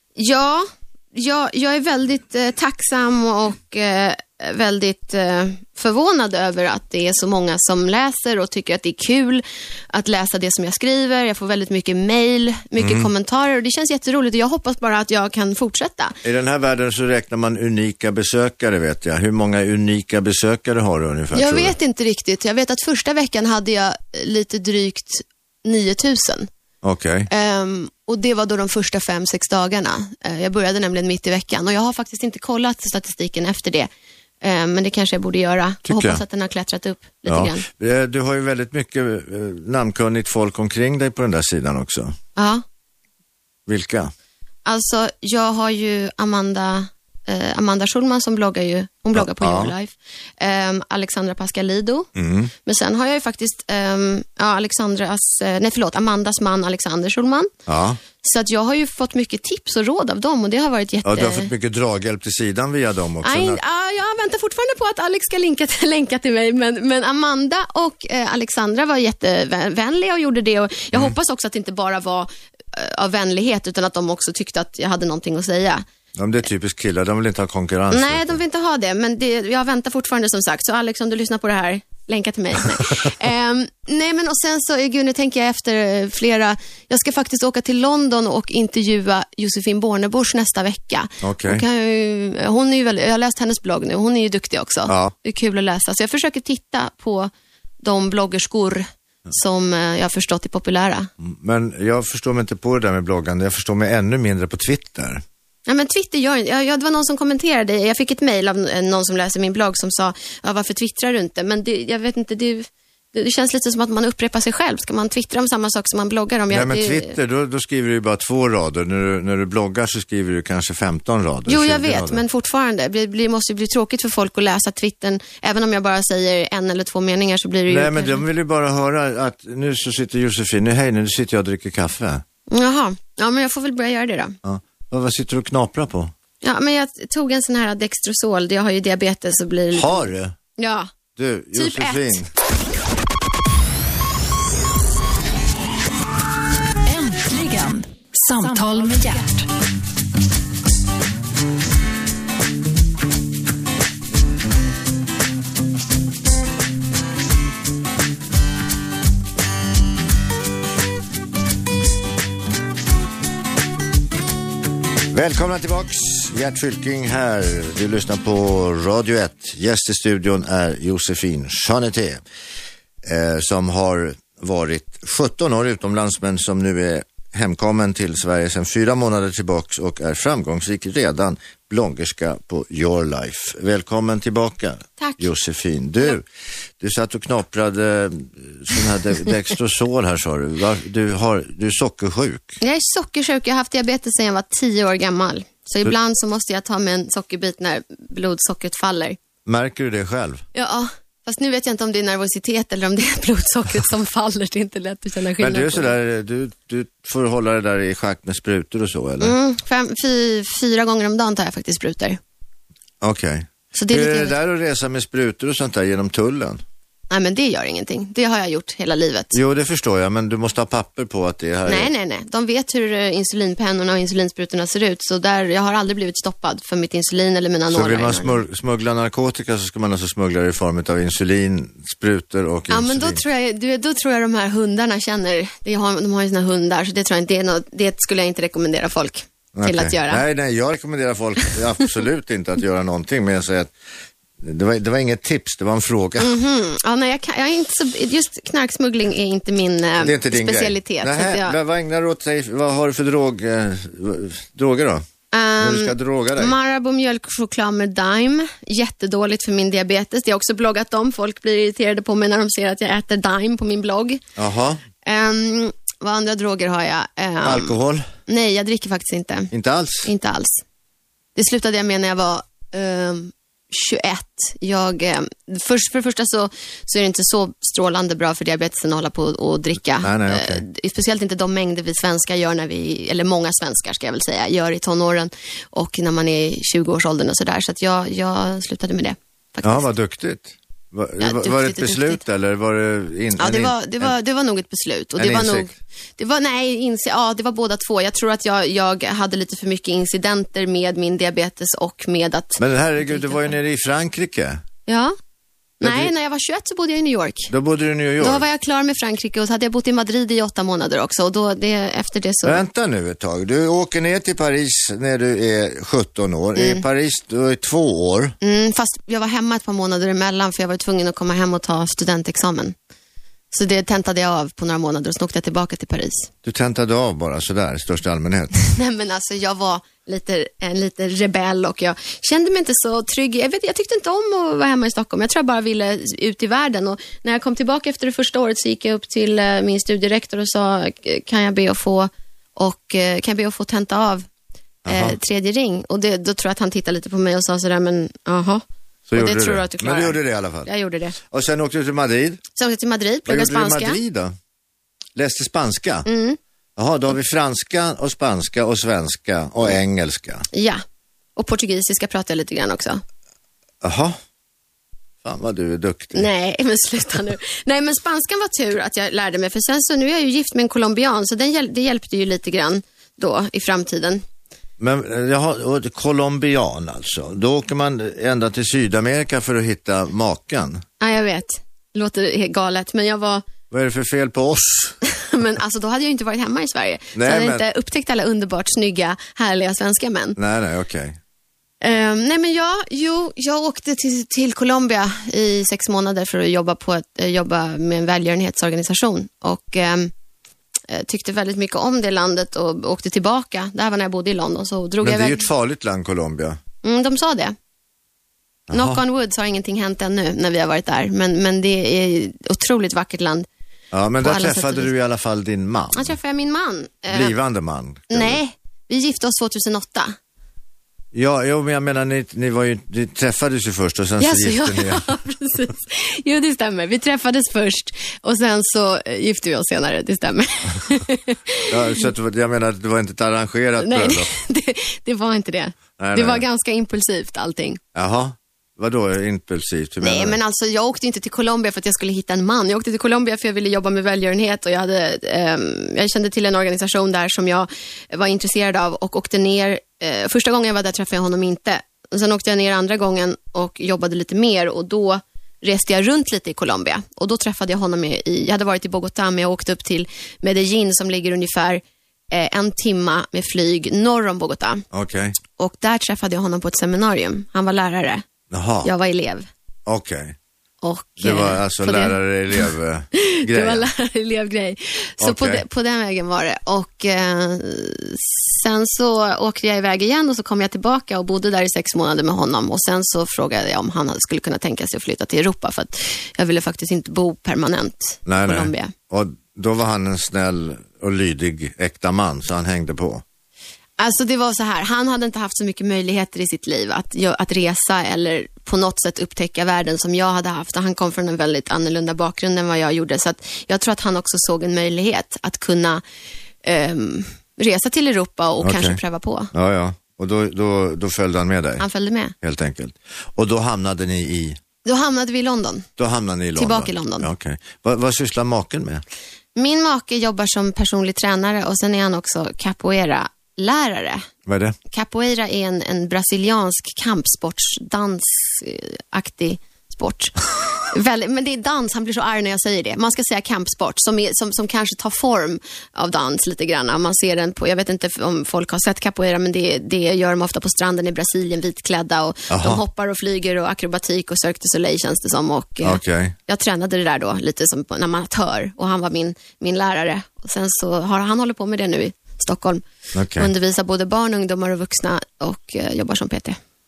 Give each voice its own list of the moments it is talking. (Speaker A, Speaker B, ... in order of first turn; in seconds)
Speaker A: 0.2-16.2, 21.3-26.5, 27.3-33.9, 34.4-37.7, 42.4-42.6, 44.7-52.1, 52.6-57.5, 58.2-61.5, 63.2-75.8, 77.9-97.3, 97.8-101.1, 105.7-117.2, 121.5-128.2, 132.5-134.4, 136.4-140.9, 141.5-142.2, 185.0-185.2, 192.6-199.2, 200.5-205.9, 209.2-212.2, 213.7-214.4, 217.1-219.4, 221.7-228.4, 232.7-240.2, 246.2-251.6, 255.3-264.2, 265.0-269.5, 270.0-270.6, 271.4-289.9, 291.2-292.2, 293.4-303.5, 304.9-305.1, 305.8-307.5, 308.2-312.6, 316.6-316.8, 318.4-322.8, 323.5-326.3, 328.6-344.3, 344.9-348.6, 349.1-351.2, 352.6-354.0, 356.1-356.4, 360.5-360.8, 361.4-363.0, 366.1-374.2, 381.0-383.4, 385.0-390.4, 391.8-400.1, 400.9-405.5, 406.8-407.6, 408.7-413.5, 414.2-414.9, 415.9-417.4, 418.1-420.2, 424.2-432.0, 433.8-437.8, 440.0-464.9, 465.6-468.2, 468.8-469.5, 470.8-488.9, 494.0-506.0, 506.6-509.5, 511.8-512.3, 514.9-515.9, 516.6-517.3, 519.6-524.3, 524.9-552.8, 553.4-556.6
Speaker B: 12.8-13.1, 16.2-21.8, 26.8-27.3, 35.9-36.2, 37.3-42.1, 43.7-44.1, 49.1-49.7, 52.1-52.5, 57.7-58.0, 61.0-63.6, 76.2-78.4, 91.2-91.6, 94.9-95.1, 101.2-105.2, 116.5-122.2, 127.7-132.2, 134.4-136.1, 139.7-140.4, 141.2-142.3, 165.1-172.2, 173.0-186.3, 186.8-192.6, 199.4-200.4, 205.4-209.3, 213.0-216.6, 219.3-221.9, 227.7-233.2, 239.6-243.7, 244.4-246.4, 250.0-255.0, 255.6-256.6, 264.4-264.8, 267.4-268.1, 269.5-270.1, 280.0-280.6, 289.6-294.1, 295.2-295.7, 302.6-304.6, 305.8-306.1, 307.5-308.4, 312.4-318.4, 326.4-328.5, 344.9-345.2, 349.1-350.7, 351.2-352.4, 353.3-354.3, 355.1-356.1, 356.8-360.5, 363.8-364.2, 365.2-366.3, 374.8-380.8, 383.7-385.0, 387.1-387.6, 390.4-391.2, 405.0-406.6, 408.7-409.0, 413.9-416.2, 417.1-418.4, 421.1-425.1, 431.7-434.3, 436.0-436.4, 437.9-440.4, 464.9-465.4, 468.5-468.9, 469.9-470.4, 471.2-473.9, 475.2-475.6, 488.3-493.2, 508.6-509.0, 509.5-511.9, 512.4-514.6, 516.0-519.0, 524.5-524.8, 542.5-542.8, 545.8-546.4, 553.1-553.5
Speaker C: 146.8-149.5